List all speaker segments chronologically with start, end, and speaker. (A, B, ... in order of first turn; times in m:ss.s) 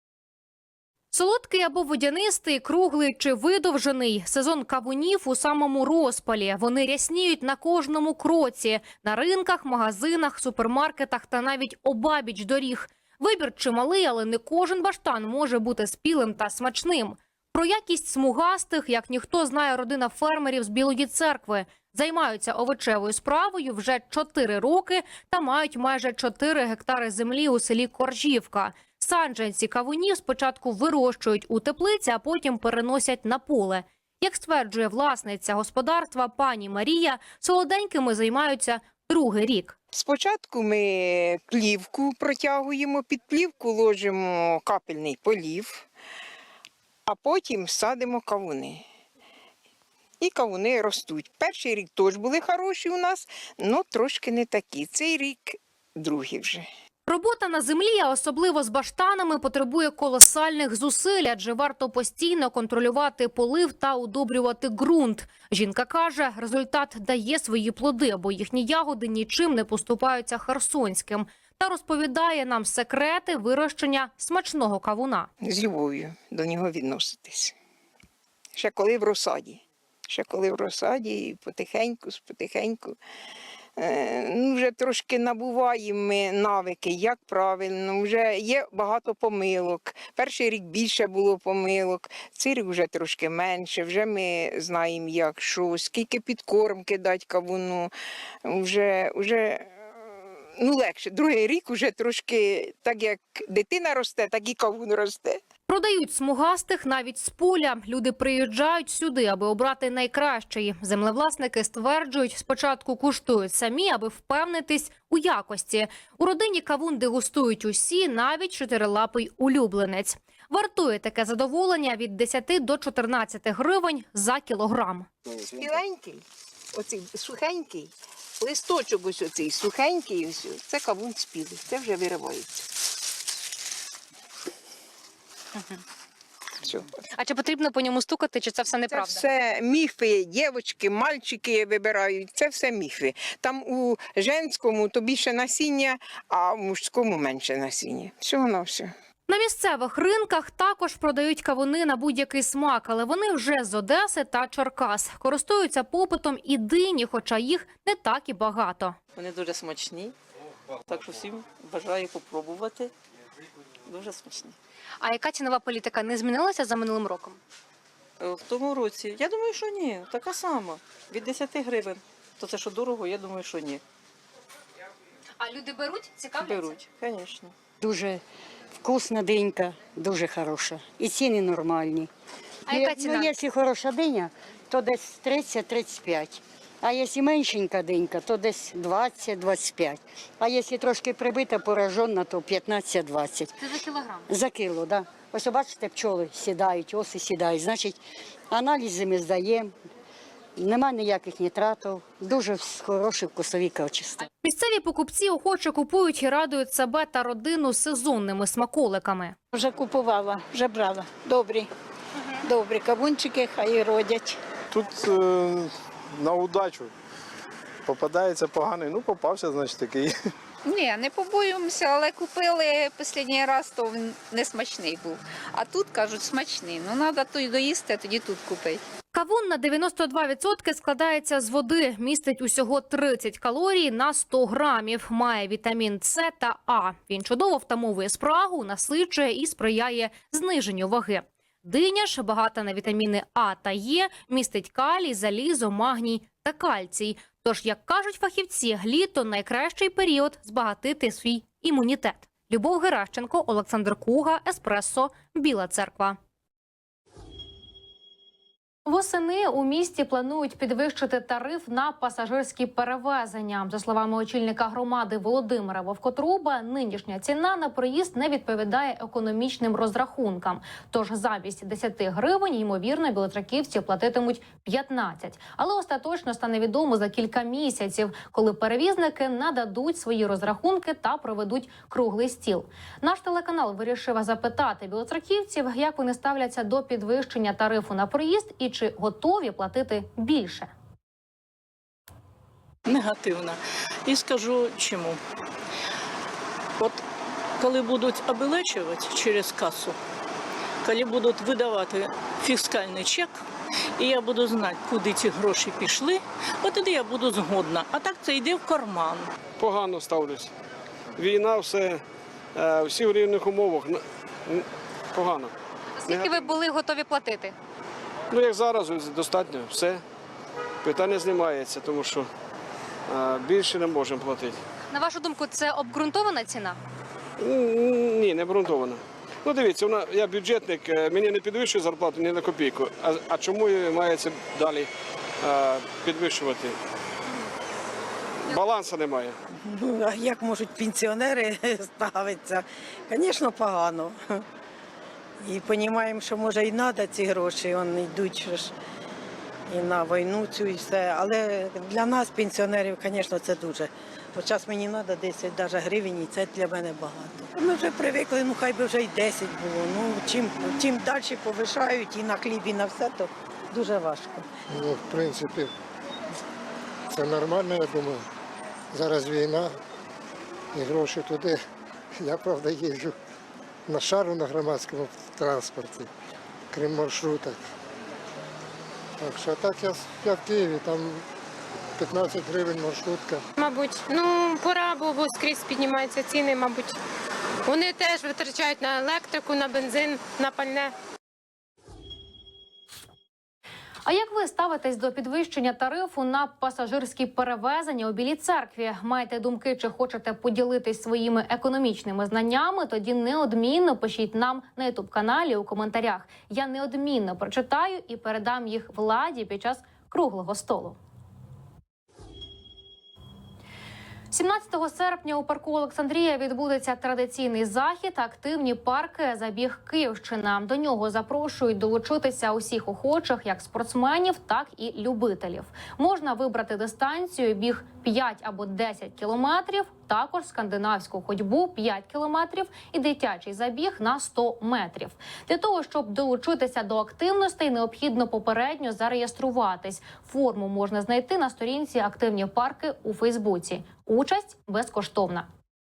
0:01.1-0:39.8 A
0:39.9-0:45.9 B
0:47.1-0:48.8 B
0:50.2-0:56.7 B
0:57.0-1:15.3 A
1:15.4-1:17.5 B
1:18.6-1:23.0 B
1:23.8-1:37.9 B
1:38.4-1:45.4 B
1:45.7-2:05.1 A
2:05.5-2:06.2 B
2:06.7-2:12.6 B
2:17.1-2:19.2 A
2:18.9-2:28.9 B
2:29.3-2:39.0 A
2:45.0-2:47.4 A
2:55.4-2:56.8 A
2:57.8-2:58.2 C
2:58.8-3:02.1 C
3:02.7-3:03.3 A
3:02.7-3:13.6 C
3:13.6-3:14.2 A
3:14.3-3:18.0 C
3:18.5-3:19.7 C
3:20.6-3:24.3 C
3:24.4-3:29.3 A
3:29.5-3:31.7 D
3:32.4-3:34.4 D
3:34.7-3:36.9 E
3:37.8-3:40.1 E
3:40.6-3:48.8 F
3:49.1-4:16.2 A
4:18.8-4:50.7 A
4:52.8-4:55.2 G
4:57.6-5:00.0 G
5:00.8-5:03.4 G
5:04.0-5:09.3 G
5:09.6-5:10.5 E
5:11.2-5:12.0 E
5:12.5-5:15.5 E
5:16.0-5:17.5 A
5:16.1-5:16.4 E
5:18.3-5:20.0 E
5:20.8-5:22.2 E
5:23.1-5:24.6 E
5:24.9-5:26.8 A
5:27.4-5:34.9 E
5:35.4-5:36.7 E
5:38.5-5:39.3 E
5:39.6-5:44.4 H
5:45.4-5:48.7 H
5:49.7-6:04.5 H
6:04.7-6:05.7 I
6:07.1-6:08.2 I
6:08.9-6:09.8 I
6:10.7-6:11.6 I
6:12.2-6:13.1 I
6:13.9-6:16.1 I
6:16.7-6:17.6 I
6:19.2-6:21.2 I
6:22.0-6:23.4 I
6:23.6-6:27.0 J
6:27.6-6:30.9 J
6:34.0-6:51.0 A
6:54.3-7:25.5 A